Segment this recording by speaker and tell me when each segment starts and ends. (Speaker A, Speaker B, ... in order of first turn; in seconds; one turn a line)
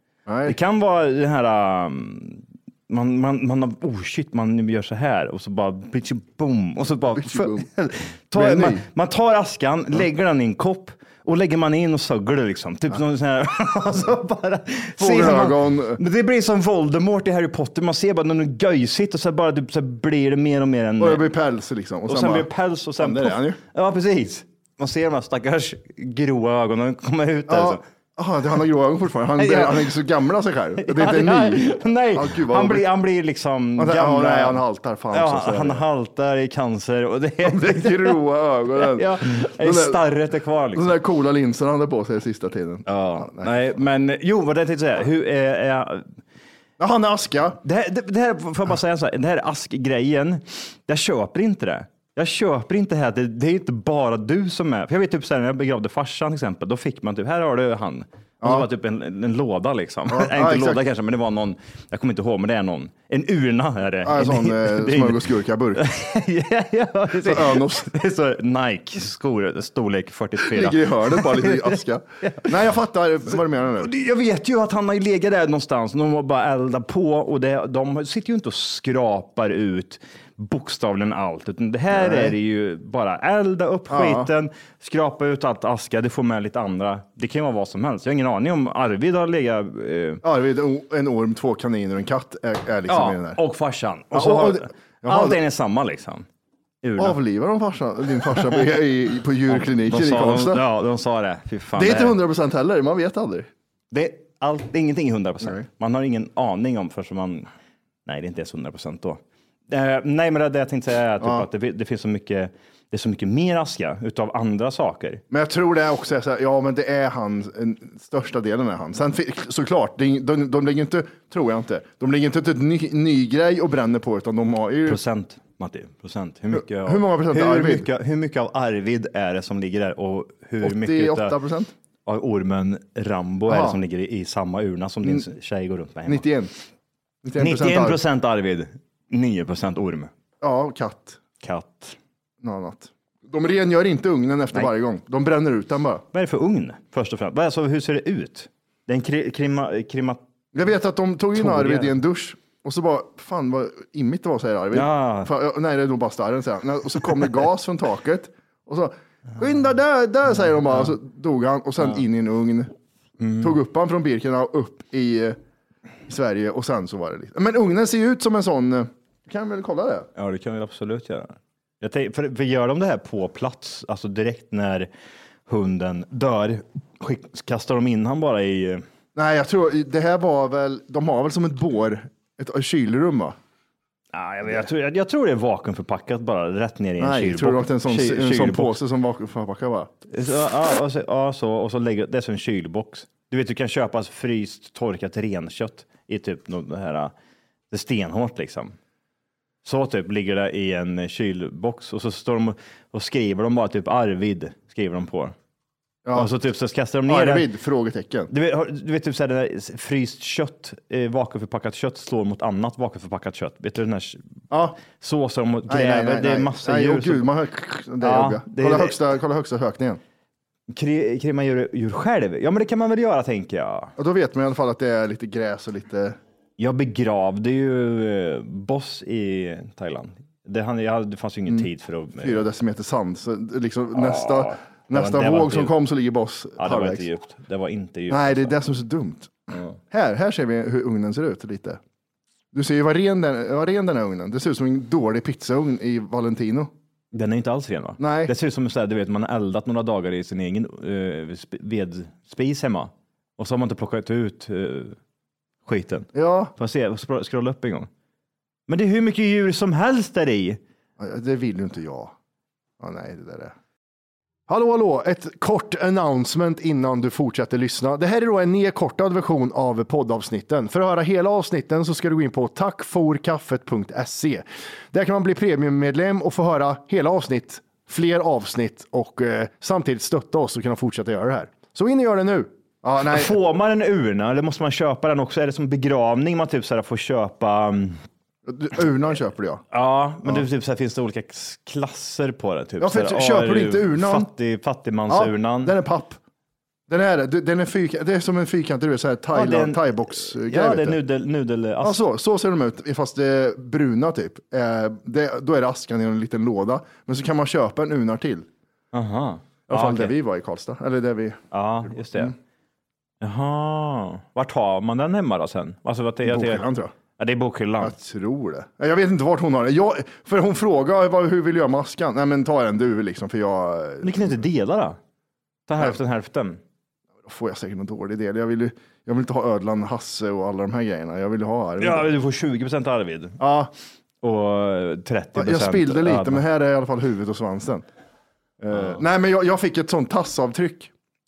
Speaker A: 0.3-0.6
Speaker B: 0.5-21.2
Speaker A: 7.2-7.7
Speaker A: 8.3-8.8
Speaker A: 15.0-16.0
Speaker A: 21.0-22.5
Speaker B: 22.1-27.8
Speaker A: 23.0-23.6
Speaker A: 27.5-32.9
Speaker B: 29.4-30.0
Speaker B: 30.8-38.2
Speaker A: 33.8-35.8
Speaker A: 37.4-40.0
Speaker B: 38.8-40.9
Speaker A: 40.8-43.5
Speaker B: 42.9-46.1
Speaker A: 46.8-47.6
Speaker B: 47.6-72.5
Speaker A: 58.4-58.7
Speaker A: 60.1-60.8
Speaker A: 64.0-65.8
Speaker A: 67.2-67.9
Speaker A: 70.5-73.9
Speaker B: 73.8-90.2
Speaker A: 81.9-82.4
Speaker A: 83.9-84.3
Speaker A: 90.2-93.4
Speaker B: 92.9-96.3
Speaker A: 94.1-95.4
Speaker B: 96.8-97.2
Speaker A: 97.0-100.6
Speaker B: 99.5-102.2
Speaker A: 101.8-103.5
Speaker B: 103.9-107.5
Speaker B: 108.1-115.2
Speaker A: 111.2-111.5
Speaker A: 115.3-125.0
Speaker B: 124.9-131.4
Speaker A: 126.5-127.9
Speaker A: 130.6-131.7
Speaker B: 132.1-136.3
Speaker A: 133.5-133.8
Speaker A: 136.1-136.5
Speaker A: 137.2-138.0
Speaker B: 137.4-140.1
Speaker A: 140.4-141.2
Speaker B: 141.4-142.0
Speaker A: 142.4-146.0
Speaker B: 146.1-150.2
Speaker A: 150.5-162.7
Speaker B: 151.4-151.9
Speaker B: 154.7-155.3
Speaker B: 163.2-163.6
Speaker A: 163.4-165.4
Speaker A: 166.1-170.1
Speaker B: 170.2-174.9
Speaker B: 175.5-178.8
Speaker A: 179.2-183.4
Speaker B: 184.1-188.8
Speaker A: 187.0-189.9
Speaker B: 190.1-197.1
Speaker B: 197.7-198.8
Speaker B: 199.6-205.3
Speaker A: 206.1-206.3
Speaker B: 206.2-207.5
Speaker A: 207.1-208.3
Speaker B: 208.3-214.2
Speaker A: 214.5-214.8
Speaker B: 214.8-217.3
Speaker A: 215.7-220.0
Speaker B: 218.0-219.0
Speaker B: 220.7-223.9
Speaker A: 224.0-226.2
Speaker B: 226.6-232.5
Speaker A: 232.2-237.1
Speaker B: 233.9-235.8
Speaker B: 236.6-238.5
Speaker A: 238.1-239.3
Speaker A: 239.9-241.8
Speaker A: 242.5-246.7
Speaker B: 247.1-255.0
Speaker A: 248.0-248.3
Speaker B: 255.7-257.9
Speaker A: 256.1-256.5
Speaker B: 258.7-260.6
Speaker A: 261.0-262.1
Speaker A: 262.8-263.5
Speaker A: 264.5-283.3
Speaker B: 283.1-288.0
Speaker A: 288.5-289.6
Speaker B: 289.7-295.8
Speaker A: 292.8-294.3
Speaker A: 295.1-296.2
Speaker A: 296.9-301.0
Speaker B: 299.3-302.0
Speaker A: 301.8-308.5
Speaker B: 308.9-310.1
Speaker A: 309.7-311.4
Speaker B: 311.5-312.3
Speaker A: 312.0-312.3
Speaker B: 313.2-316.7
Speaker A: 316.3-316.9
Speaker B: 317.2-317.9
Speaker A: 317.8-324.4
Speaker B: 324.0-325.0
Speaker B: 325.7-326.6
Speaker A: 327.3-332.1
Speaker B: 331.8-333.4
Speaker A: 333.4-333.7
Speaker B: 334.2-336.4
Speaker A: 335.4-337.9
Speaker A: 338.6-340.9
Speaker B: 338.7-339.0